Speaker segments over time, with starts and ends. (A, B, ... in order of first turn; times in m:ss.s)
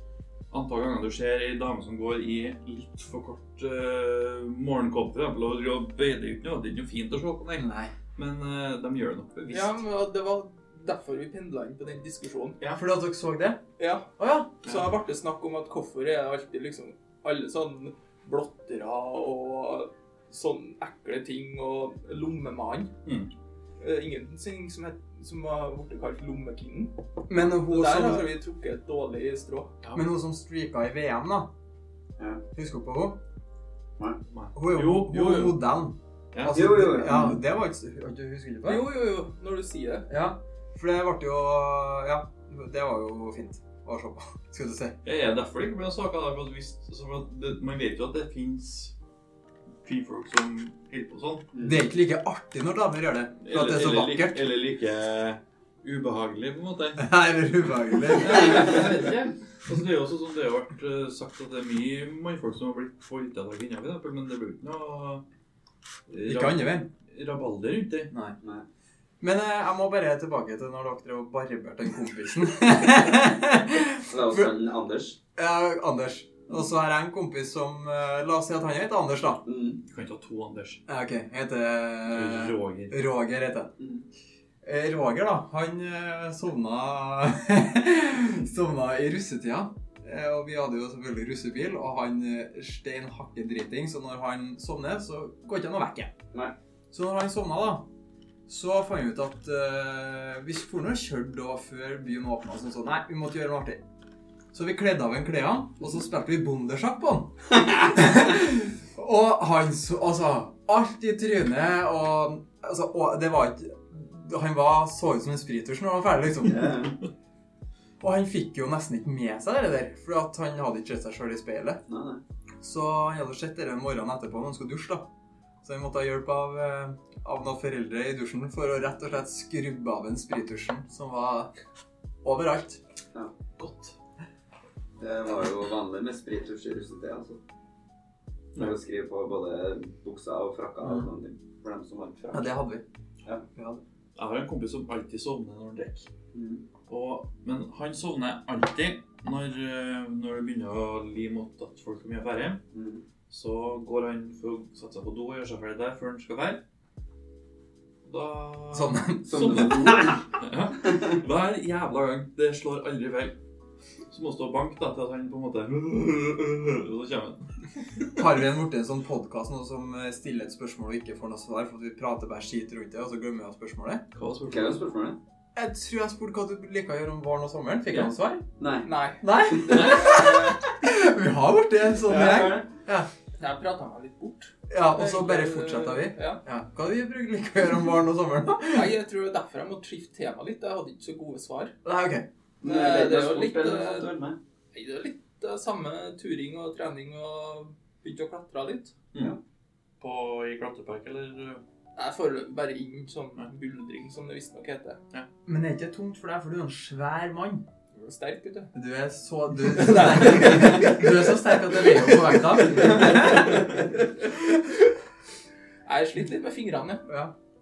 0:00.5-0:09.8 A
0:07.6-0:07.9 B
0:09.5-0:12.6 C
0:12.7-0:13.6 B
0:13.8-0:22.9 C
0:14.2-0:14.5 B
0:23.0-0:23.3 A
0:23.8-0:26.9 C
0:27.3-0:28.3 B
0:27.5-0:29.8 C
0:29.9-0:31.5 B
0:32.6-0:33.2 B
0:34.3-0:35.6 A
0:34.6-0:38.8 B
0:36.3-0:36.6 A
0:36.5-0:37.4 D
0:38.6-0:40.1 C
0:40.1-0:45.0 B
0:45.0-0:48.9 A
0:49.8-0:51.5 A
0:51.5-0:51.8 D
0:51.6-0:54.4 B
0:53.4-0:57.1 A
0:57.0-0:58.8 B
0:58.1-1:05.2 A
1:06.1-1:08.1 A
1:06.2-1:06.9 B
1:08.1-1:08.4 B
1:09.2-1:14.5 B
1:14.1-1:15.2 D
1:15.4-1:19.4 B
1:19.4-1:19.8 D
1:19.9-1:20.8 A
1:20.9-1:23.7 B
1:22.1-1:23.0 A
1:23.8-1:24.0 D
1:24.6-1:36.1 B
1:36.9-1:37.8 B
1:38.5-1:43.8 B
1:44.5-1:56.9 B
1:56.4-1:57.0 D
1:58.0-2:01.8 B
2:01.9-2:02.2 D
2:02.6-2:05.1 B
2:05.6-2:11.5 B
2:12.2-2:12.8 B
2:13.6-2:14.0 A
2:15.0-2:17.4 D
2:18.6-2:22.6 D
2:22.3-2:22.8 B
2:23.6-2:23.8 B
2:24.2-2:26.1 A
2:26.3-2:26.6 D
2:26.9-2:32.6 A
2:32.7-2:33.0 D
2:33.3-2:36.6 A
2:38.0-2:43.4 A
2:38.7-2:40.2 B
2:39.3-2:40.2 D
2:40.8-2:41.2 D
2:44.1-2:47.5 A
2:48.2-2:54.0 B
2:54.1-2:54.8 A
2:54.5-2:55.2 D
2:55.6-2:58.4 B
2:58.6-2:58.9 D
2:58.8-3:00.6 C
2:59.2-3:03.1 B
2:59.7-3:00.1 A
3:02.0-3:02.7 D
3:03.4-3:06.4 C
3:04.7-3:08.9 B
3:08.7-3:11.7 C
3:11.8-3:12.3 B
3:12.6-3:14.4 D
3:12.6-3:14.1 C
3:14.7-3:19.0 C
3:20.0-3:21.6 A
3:22.0-3:25.0 C
3:25.5-3:27.6 B
3:27.9-3:28.7 C
3:28.7-3:33.7 B
3:29.7-3:34.1 C
3:35.9-3:37.0 C
3:37.1-3:37.3 B